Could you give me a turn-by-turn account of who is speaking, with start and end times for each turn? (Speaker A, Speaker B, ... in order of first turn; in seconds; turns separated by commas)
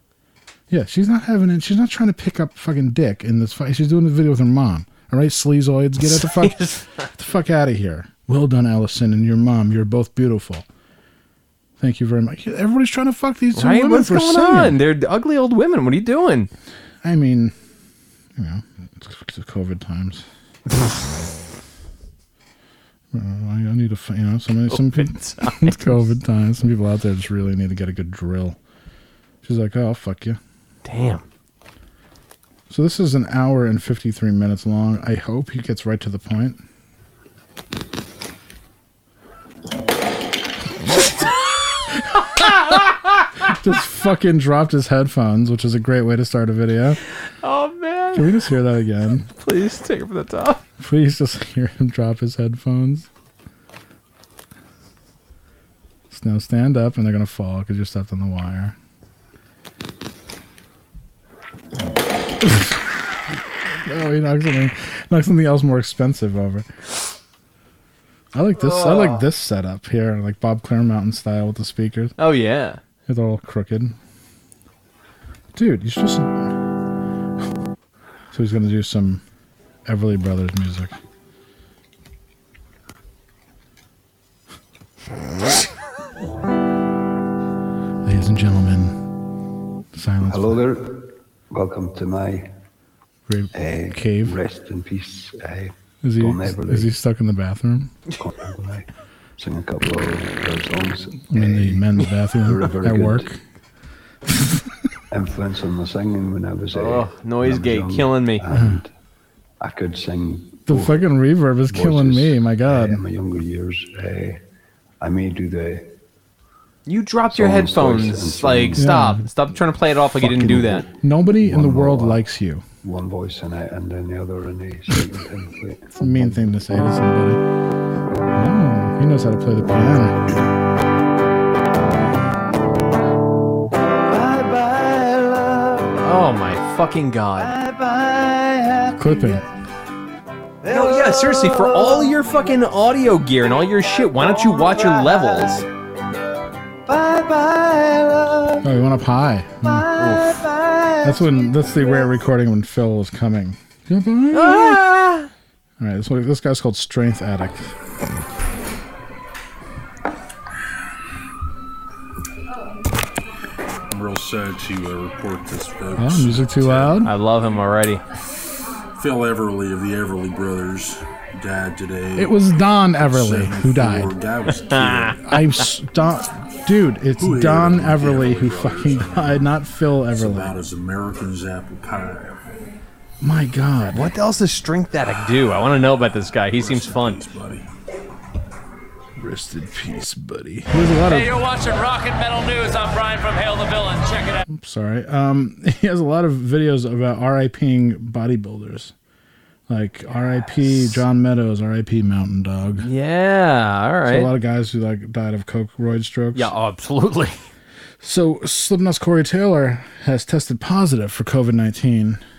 Speaker A: 0.7-10.7, Speaker B: 6.0-7.0, Speaker A: 11.8-14.8, Speaker B: 13.6-16.5, Speaker A: 17.0-17.5, Speaker A: 18.4-20.3, Speaker A: 23.1-28.6, Speaker B: 24.7-26.0, Speaker A: 29.4-30.4, Speaker B: 30.9-31.2, Speaker A: 32.7-36.6, Speaker A: 42.1-42.9, Speaker A: 43.4-47.0, Speaker B: 47.4-48.3, Speaker A: 48.1-49.3, Speaker B: 49.4-50.6, Speaker A: 50.8-53.1, Speaker A: 56.1-58.8, Speaker A: 62.4-63.0, Speaker A: 63.8-66.7, Speaker A: 68.3-72.2, Speaker B: 68.6-69.2, Speaker B: 72.2-72.8, Speaker A: 73.1-74.0, Speaker A: 75.5-76.5, Speaker A: 78.3-79.2, Speaker A: 79.9-81.0, Speaker A: 88.0-89.0, Speaker A: 89.9-90.6, Speaker C: 90.2-92.5, Speaker A: 93.3-94.4, Speaker C: 93.5-96.9, Speaker A: 96.0-98.0, Speaker C: 98.2-98.9, Speaker C: 99.4-103.3, Speaker A: 101.3-103.4, Speaker A: 104.4-104.7, Speaker C: 105.1-108.9, Speaker B: 106.8-108.5, Speaker A: 108.5-108.8, Speaker C: 109.6-111.0, Speaker A: 110.7-113.0, Speaker C: 111.7-114.4, Speaker C: 115.0-115.9, Speaker B: 116.9-120.9, Speaker C: 117.3-118.8, Speaker A: 118.7-119.3, Speaker A: 120.2-122.7, Speaker C: 121.4-122.2, Speaker C: 122.8-126.5, Speaker A: 126.0-127.4, Speaker A: 128.3-130.2, Speaker B: 136.0-137.6, Speaker A: 139.0-139.4, Speaker B: 140.7-145.6, Speaker A: 148.6-149.9, Speaker B: 149.9-150.4, Speaker A: 151.0-154.9, Speaker B: 154.3-155.3, Speaker A: 155.8-157.7, Speaker D: 163.9-167.0, Speaker A: 166.0-167.1, Speaker B: 167.0-168.0, Speaker D: 169.0-172.4, Speaker A: 172.2-174.1, Speaker D: 172.9-175.3, Speaker B: 174.5-175.2, Speaker A: 175.2-180.5, Speaker D: 177.2-179.6, Speaker D: 180.1-182.7, Speaker A: 183.2-184.1, Speaker B: 183.9-187.2, Speaker D: 186.5-187.7, Speaker A: 189.2-191.4, Speaker E: 191.1-194.4, Speaker A: 194.5-198.9, Speaker A: 199.7-202.9, Speaker B: 200.3-201.0, Speaker B: 202.8-204.3, Speaker A: 204.1-206.5, Speaker B: 206.3-207.4, Speaker A: 208.0-212.2